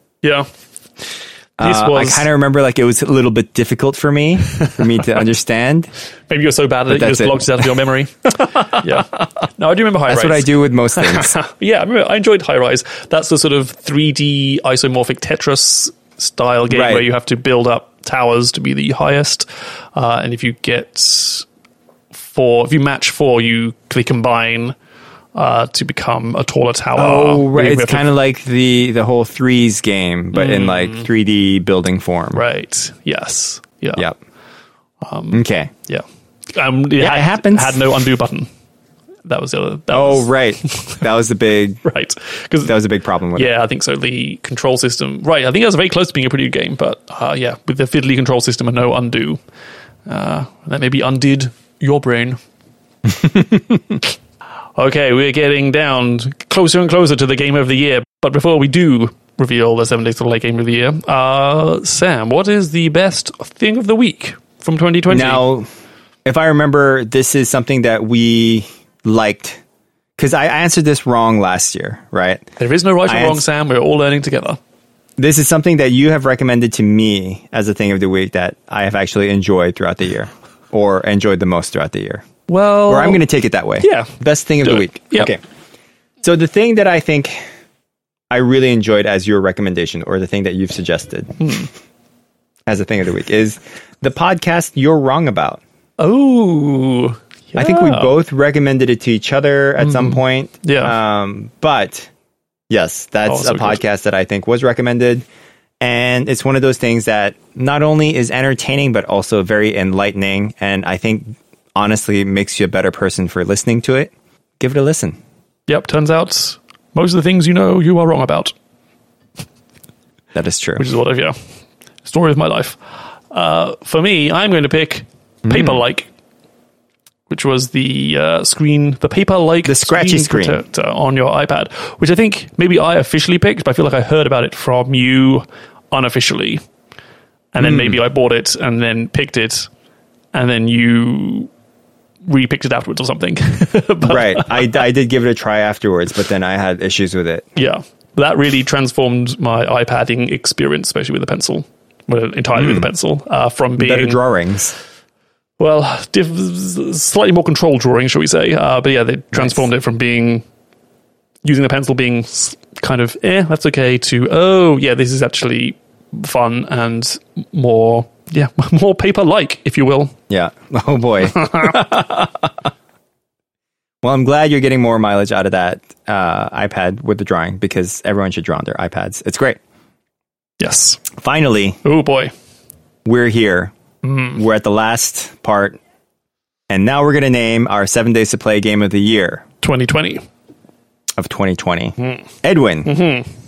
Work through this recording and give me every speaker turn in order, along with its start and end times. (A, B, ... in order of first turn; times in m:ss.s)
0:01.6-0:05.9 A
0:01.6-0:02.3 B
0:06.3-0:21.5 B
0:06.9-0:07.7 A
0:10.1-0:11.4 A
0:16.7-0:17.0 A
0:22.3-0:24.8 B
0:25.4-0:28.1 B
0:27.0-0:32.4 A
0:30.3-0:31.1 B
0:32.4-0:34.0 B
0:35.0-0:38.5 B
0:35.3-0:35.7 A
0:37.0-0:37.8 A
0:39.3-0:41.0 B
0:39.9-0:41.8 A
0:41.8-0:42.7 B
0:42.6-0:43.5 A
0:43.3-0:49.4 B
0:50.1-0:52.4 B
0:53.2-0:53.8 A
0:54.8-1:05.4 B
1:05.1-1:05.7 A
1:06.2-1:09.6 A
1:10.2-1:12.5 A
1:12.6-1:14.6 B
1:13.1-1:13.4 A
1:15.2-1:22.2 A
1:22.5-1:23.2 B
1:22.9-1:25.4 A
1:23.8-1:25.3 B
1:26.2-1:27.4 A
1:28.3-1:31.5 A
1:31.4-1:31.7 B
1:32.7-1:35.6 A
1:36.0-1:38.1 B
1:37.6-1:42.1 A
1:39.8-1:41.0 B
1:42.7-1:45.2 A
1:43.3-1:43.8 B
1:45.8-1:55.2 A
1:55.7-1:58.5 B
2:00.4-2:00.8 A
2:00.8-2:01.4 B
2:02.0-2:02.8 B
2:03.3-2:06.1 B
2:05.4-2:05.8 A
2:07.3-2:16.6 B
2:09.6-2:10.6 A
2:17.5-2:19.7 B
2:17.6-2:18.0 A
2:20.3-2:21.5 B
2:22.2-2:24.8 B
2:24.0-2:27.5 A
2:27.6-2:34.2 B
2:32.5-2:32.9 A
2:33.8-2:34.8 A
2:35.6-2:40.4 B
2:39.3-2:39.6 A
2:41.4-2:50.1 B
2:50.3-2:52.5 A
2:51.4-2:51.7 B
2:54.0-2:59.6 A
3:00.6-3:01.0 B
3:01.2-3:01.8 A
3:01.8-3:02.3 B
3:03.0-3:03.7 A
3:04.0-3:04.4 B
3:04.3-3:05.8 A
3:06.7-3:09.4 A
3:09.6-3:10.2 B
3:11.2-3:12.9 A
3:12.0-3:12.2 B
3:12.8-3:13.3 B